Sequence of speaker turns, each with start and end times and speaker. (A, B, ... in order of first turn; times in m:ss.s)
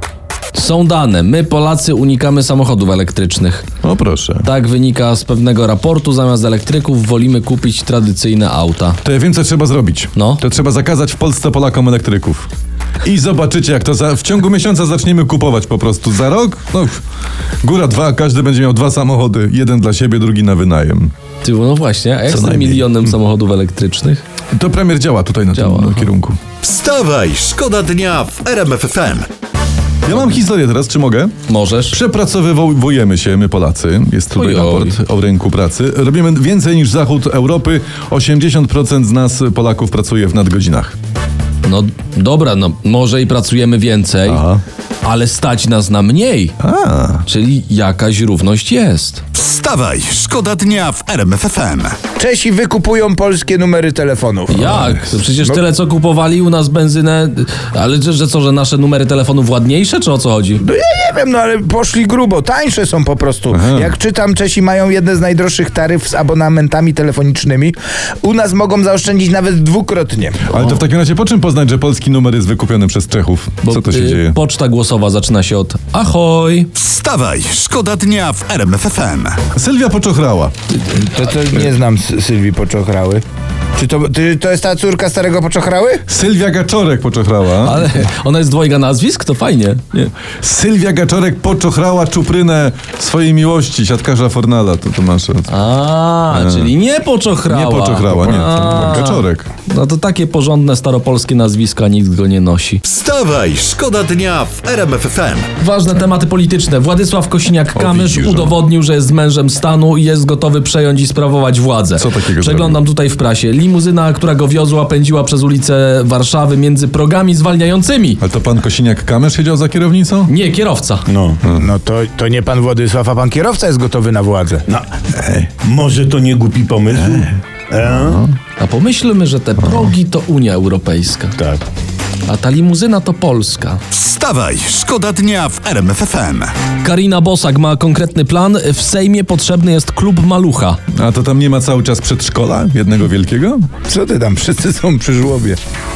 0:00.5-0:03.7 A
0:03.8-0:04.4 B
0:04.4-0:09.0 A
0:09.0-0:12.5 B
0:10.2-0:10.4 A
0:13.0-0:17.0 B
0:17.6-0:21.1 B
0:21.4-0:24.2 A
0:22.3-0:22.9 B
0:24.5-0:26.4 B
0:25.5-0:26.1 A
0:26.6-0:29.2 C
0:30.0-0:31.3 B
0:31.5-0:31.9 A
0:31.9-0:40.9 B
0:34.3-0:35.0 A
0:41.6-0:44.4 A
0:44.2-0:44.6 B
0:45.0-0:46.6 A
0:46.6-0:47.2 B
0:47.3-0:49.2 A
0:49.3-0:52.0 C
0:52.2-0:55.6 D
0:54.5-1:00.6 A
1:00.6-1:10.6 D
1:03.5-1:03.9 B
1:10.5-1:14.4 B
1:13.6-1:16.7 A
1:16.8-1:19.4 C
1:19.5-1:20.5 B
1:20.8-1:23.2 D
1:23.8-1:26.0 D
1:26.1-1:27.9 B
1:27.6-1:30.1 A
1:30.4-1:35.5 B
1:35.5-1:42.8 A
1:36.3-1:36.7 B
1:37.4-1:39.5 B
1:42.8-1:45.5 C
1:45.6-1:58.2 A
1:47.7-1:48.5 B
1:52.0-1:52.8 B
1:58.2-2:00.3 B
2:00.3-2:01.0 A
2:01.1-2:01.4 E
2:01.5-2:04.6 D
2:04.7-2:08.2 E
2:07.0-2:07.3 B
2:08.0-2:08.3 B
2:08.6-2:11.4 A
2:11.4-2:11.6 E
2:12.2-2:13.8 A
2:13.9-2:16.5 C
2:16.8-2:20.8 A
2:20.9-2:23.7 B
2:23.9-2:25.6 D